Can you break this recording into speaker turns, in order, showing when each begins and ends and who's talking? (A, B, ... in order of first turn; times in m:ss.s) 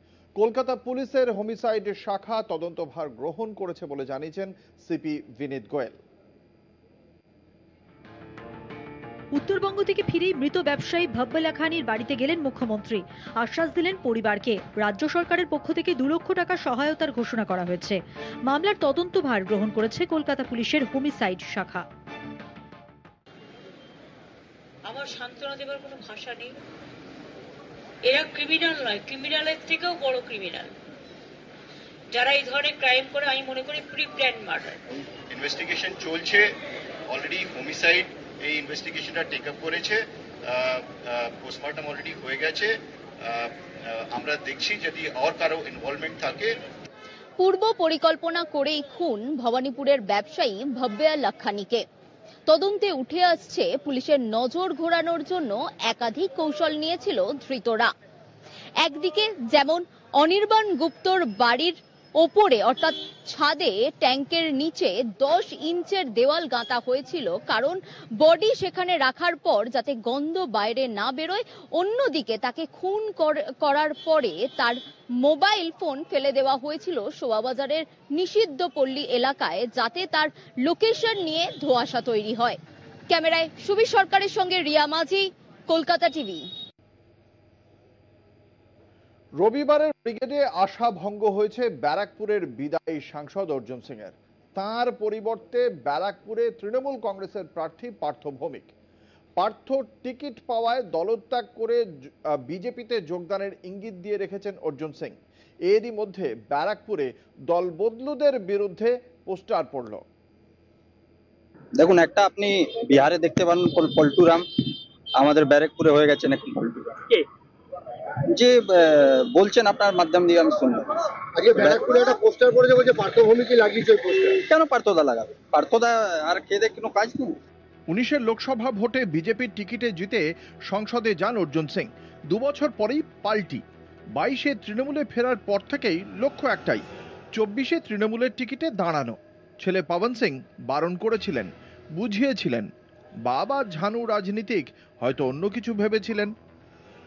0:00.4-0:06.0 A
0:09.3-0:21.8 B
0:24.9-0:26.6 C
0:28.1-0:30.7 C
0:32.1-0:34.8 C
0:35.3-0:36.5 D
0:37.1-0:40.0 D
0:40.5-0:42.7 D
0:44.1-0:46.5 D
0:47.4-0:51.8 E
0:52.5-0:57.9 E
0:58.8-1:22.6 E
1:23.1-1:26.5 E
1:29.4-1:38.7 A
1:39.4-1:41.8 A
1:42.4-1:45.2 A
1:45.7-1:50.0 A
1:51.8-1:54.4 F
1:55.2-1:57.0 F
1:58.3-2:00.8 F
2:01.4-2:03.9 G
2:01.5-2:01.9 F
2:04.4-2:07.3 F
2:07.9-2:13.6 A
2:14.2-2:16.8 A
2:17.4-2:22.7 A
2:23.3-2:26.3 A